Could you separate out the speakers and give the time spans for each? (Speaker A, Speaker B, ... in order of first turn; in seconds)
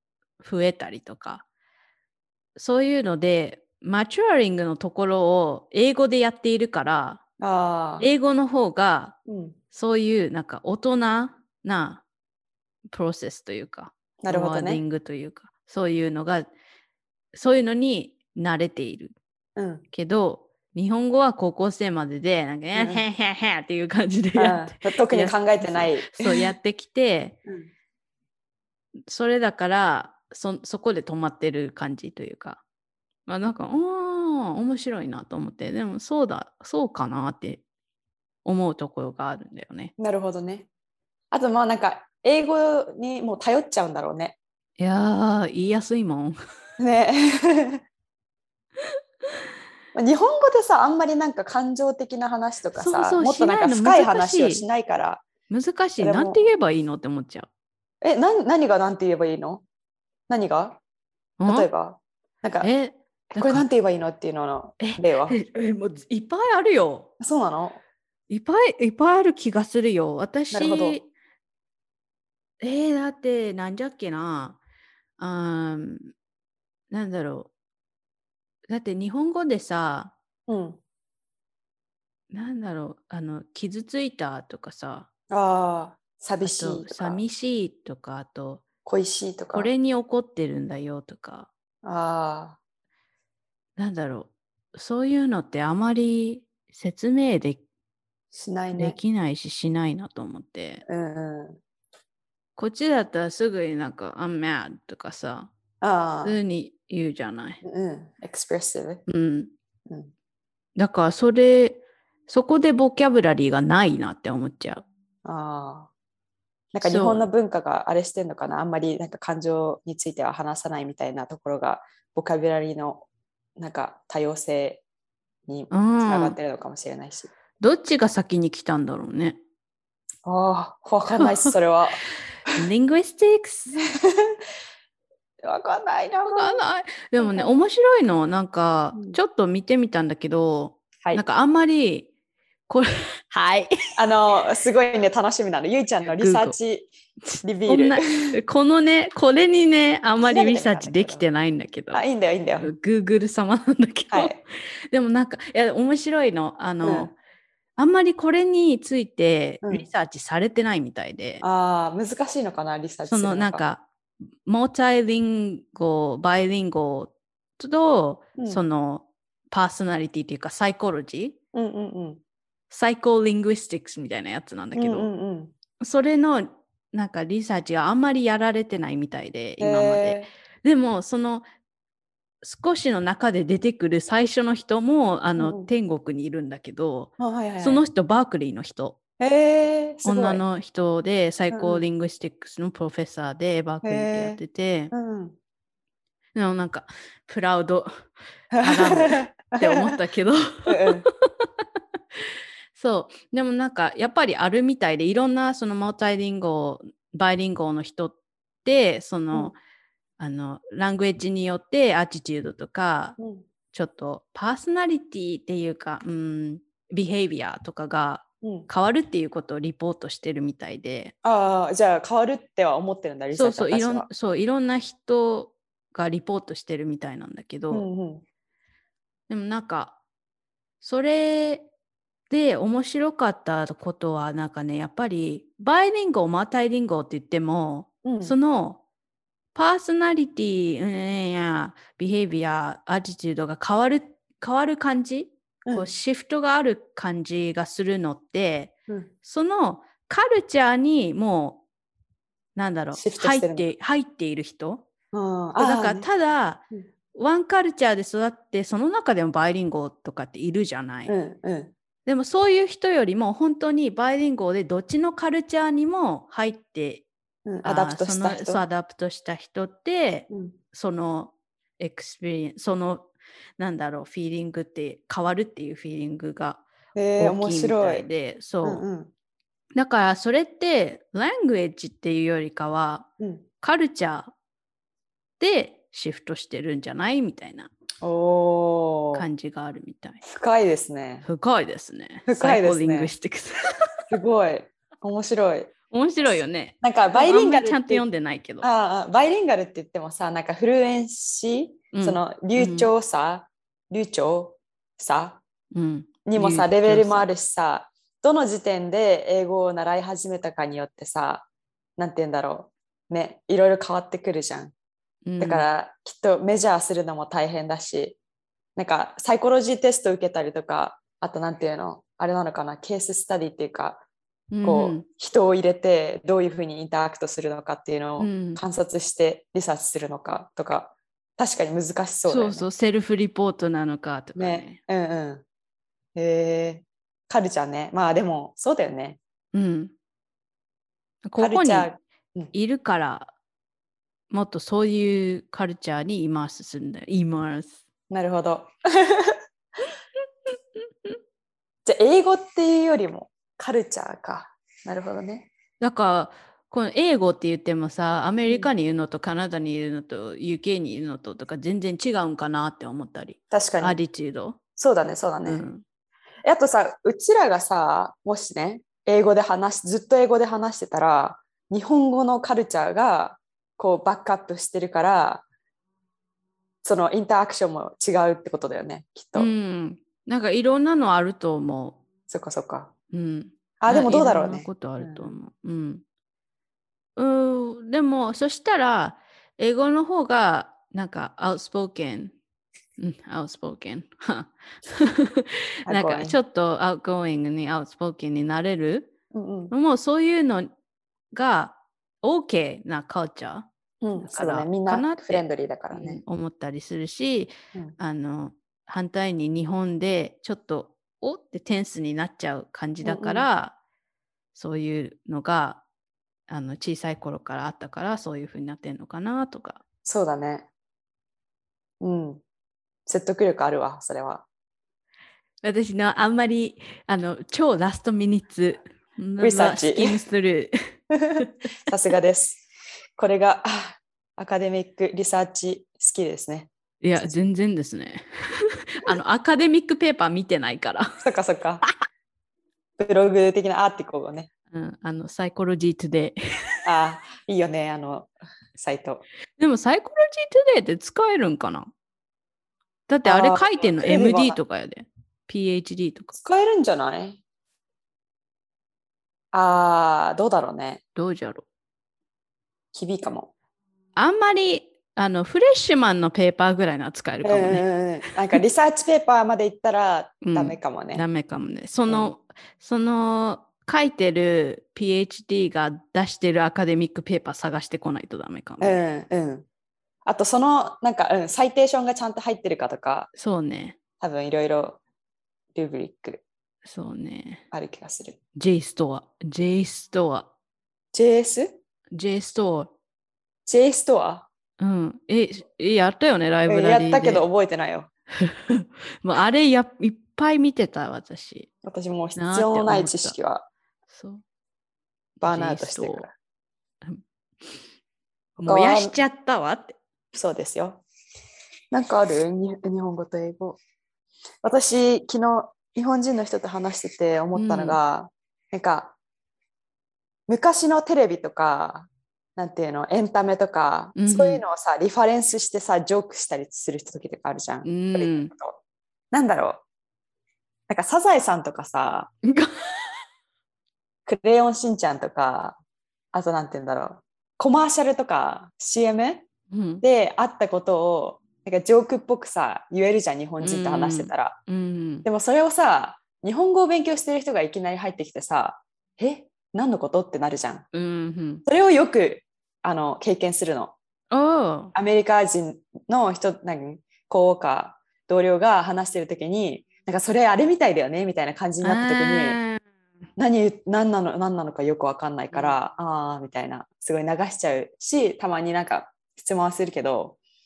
Speaker A: 0.4-1.4, 2.5-7.2, 8.0-9.2, 9.7-12.0, 12.9-16.5, 17.3-19.1, 19.9-27.4, 29.1-32.6, 33.2-37.6, 38.4-39.9, 44.8-46.4, 52.7-54.6, 55.5-57.5, 61.4-61.7, 62.6-63.7, 64.8-67.1, 68.3-71.1, 72.6-74.6, 75.2-76.1, 76.9-77.5, 78.7-80.1, 82.3-85.1, 86.4-88.6, 89.5-91.5, 93.8-97.6, 98.7-100.8, 102.5-105.5, 106.2-107.6, 109.1-109.5, 110.8-114.8, 116.8-117.2, 125.7-126.4, 127.6-129.4, 131.1-131.5, 132.5-133.9, 136.2-142.1, 142.7-143.7, 146.0-146.6, 147.3-152.0, 152.6-157.1, 157.8-161.4, 163.1-163.8, 164.4-171.4, 172.7-175.1, 175.8-181.4, 182.4-189.0, 190.0-194.9, 196.3-197.9, 198.6-201.5, 202.7-209.6, 210.2-213.2, 213.7-221.1, 223.3-227.9, 229.3-230.0, 230.8-231.7, 232.3-238.8, 239.5-251.6, 252.6-254.8, 255.6-261.1, 262.1-267.0, 267.6-276.6, 277.2-278.8, 279.7-283.1, 283.6-284.3, 285.4-287.7, 289.1-290.2, 291.2-293.5, 295.9-298.7, 301.9-302.9, 305.7-307.3, 315.2-315.7, 324.5-325.1, 328.2-328.6, 332.3-334.8, 339.5-339.9, 341.2-341.9, 342.5-343.3, 344.3-347.8, 355.8-364.6, 365.4-365.8, 379.3-382.0, 383.1-386.0, 387.1-392.3, 393.0-399.1, 399.7-400.7, 401.3-403.7, 404.2-413.8, 414.5-415.8, 416.5-419.8, 425.6-430.7, 437.0-441.1, 444.7-446.4, 449.6-451.9, 453.1-456.4, 461.1-461.6, 464.1-467.9, 470.4-479.0, 483.4-483.9, 486.8-487.6, 488.6-490.5, 492.1-492.9, 494.8-497.4, 498.4-501.7, 502.3-503.4, 504.1-504.4, 505.4-506.3, 508.6-510.0, 517.5-518.0, 524.1-524.6, 527.8-528.5, 539.7-540.0, 543.6-545.3, 550.9-551.6, 554.3-554.9, 561.8-562.8, 565.5-565.8
Speaker B: 7.4-8.1, 9.3-9.6, 14.2-14.8, 19.6-19.8, 22.7-23.0, 24.3-26.5, 40.0-40.7, 41.3-44.4, 46.8-47.8, 49.9-55.2, 56.0-56.4, 58.0-59.6, 60.3-60.8, 61.5-62.7, 63.3-65.4, 67.2-67.8, 70.5-71.0, 80.5-80.8, 85.3-87.2, 88.8-89.7, 91.8-92.6, 98.3-99.0, 100.8-101.6, 105.8-106.4, 107.6-109.0, 115.2-115.9, 116.7-123.0, 123.6-124.8, 125.5-127.3, 130.2-132.0, 134.0-134.4, 135.4-136.6, 137.2-137.5, 138.9-139.2, 143.9-146.9, 147.4-148.4, 150.2-151.2, 151.9-152.7, 154.1-154.4, 156.8-157.1, 161.4-163.6, 168.4-168.6, 171.5-172.2, 174.7-175.5, 179.6-180.3, 185.4-185.7, 187.2-187.8, 189.2-190.4, 191.5-191.8, 193.8-194.4, 194.9-195.4, 198.5-199.9, 200.7-201.1, 213.2-213.4, 218.4-218.7, 221.2-224.1, 227.7-228.2, 238.0-238.3, 252.9-253.7, 255.1-256.1, 261.1-261.7, 267.4-268.6, 270.3-270.6, 276.9-278.1, 278.6-279.1, 283.2-283.4, 288.0-289.2, 290.2-291.2, 292.3-293.1, 294.1-295.7, 296.8-298.0, 298.6-305.4, 306.2-311.4, 312.0-314.7, 315.4-318.2, 318.8-324.0, 324.6-332.7, 334.4-335.4, 336.1-339.2, 341.4-342.5, 348.1-349.4, 351.8-355.5, 358.4-358.7, 363.5-364.0, 364.8-365.6, 366.4-375.4, 376.8-379.5, 382.3-382.9, 383.8-385.3, 395.9-396.4, 399.3-399.7, 404.0-406.2, 413.0-413.5, 420.0-420.7, 422.0-422.4, 423.1-424.4, 429.4-430.2, 431.1-432.6, 433.2-437.3, 441.2-441.8, 443.0-444.5, 446.8-449.2, 453.2-454.6, 456.3-457.4, 459.5-461.0, 462.9-463.5, 467.4-471.2, 472.1-472.3, 478.8-479.6, 480.2-483.3, 484.2-485.0, 485.7-486.4, 487.7-488.4, 491.1-491.8, 493.6-494.5, 496.7-498.1, 501.8-503.7, 505.4-506.3, 508.6-509.2, 510.3-511.0, 511.9-513.8, 514.6-519.1, 520.5-528.8, 529.3-529.8, 530.9-532.3, 534.2-535.8, 536.3-539.5, 540.0-544.6, 545.2-550.9, 551.6-553.9, 554.9-562.6, 563.4-570.4